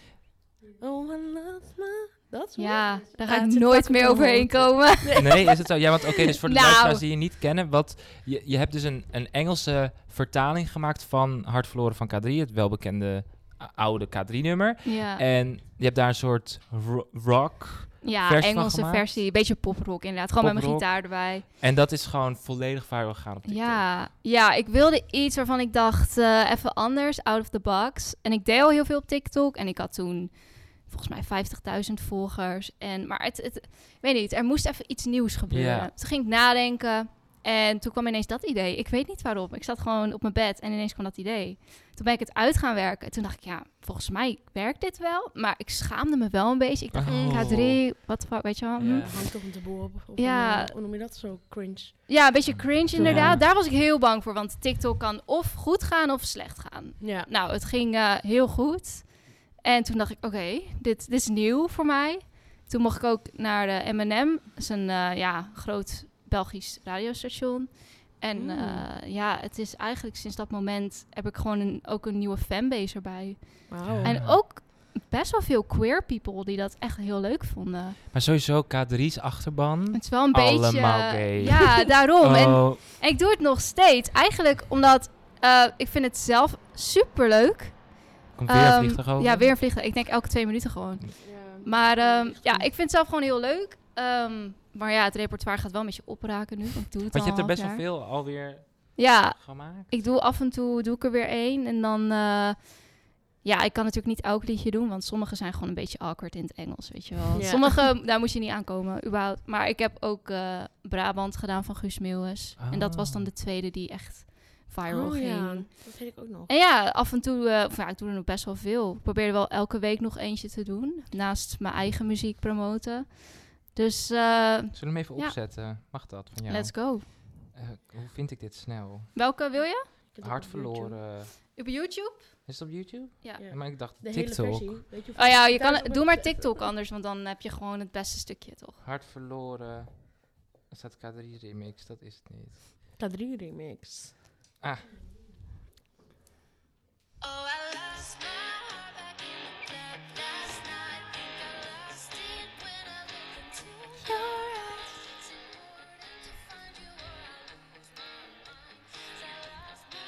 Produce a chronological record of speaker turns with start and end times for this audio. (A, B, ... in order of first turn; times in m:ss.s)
0:00.8-0:05.6 A
0:02.6-0:05.8 B
0:05.2-0:19.2 C
0:06.4-0:07.0 B
0:14.8-0:15.2 B
0:18.0-0:21.4 B
0:20.4-0:23.9 C
0:23.5-0:49.6 B
0:35.5-0:35.9 C
0:46.9-0:47.9 C
0:47.1-0:47.5 A
0:48.8-0:49.2 C
0:48.9-0:52.3 A
0:50.2-0:50.8 B
0:52.1-1:18.0 B
0:52.5-0:53.5 C
0:52.9-0:53.5 A
0:57.0-0:57.3 A
1:08.3-1:08.9 A
1:13.7-1:14.3 A
1:13.8-1:14.4 C
1:18.1-1:22.8 C
1:19.9-1:37.8 B
1:28.4-1:29.5 C
1:31.2-1:32.7 A
1:37.1-1:39.9 C
1:39.0-2:05.8 B
1:47.3-1:47.8 A
1:52.6-1:53.3 C
1:54.9-1:56.5 A
2:04.7-2:09.2 C
2:06.5-2:07.1 B
2:09.2-2:10.0 B
2:10.0-2:11.0 A
2:10.2-2:11.6 C
2:11.3-2:12.5 B
2:12.5-2:14.8 C
2:13.4-2:16.6 A
2:15.2-2:18.8 B
2:18.8-2:22.6 C
2:23.0-2:24.2 A
2:24.6-2:24.9 C
2:34.1-2:34.6 B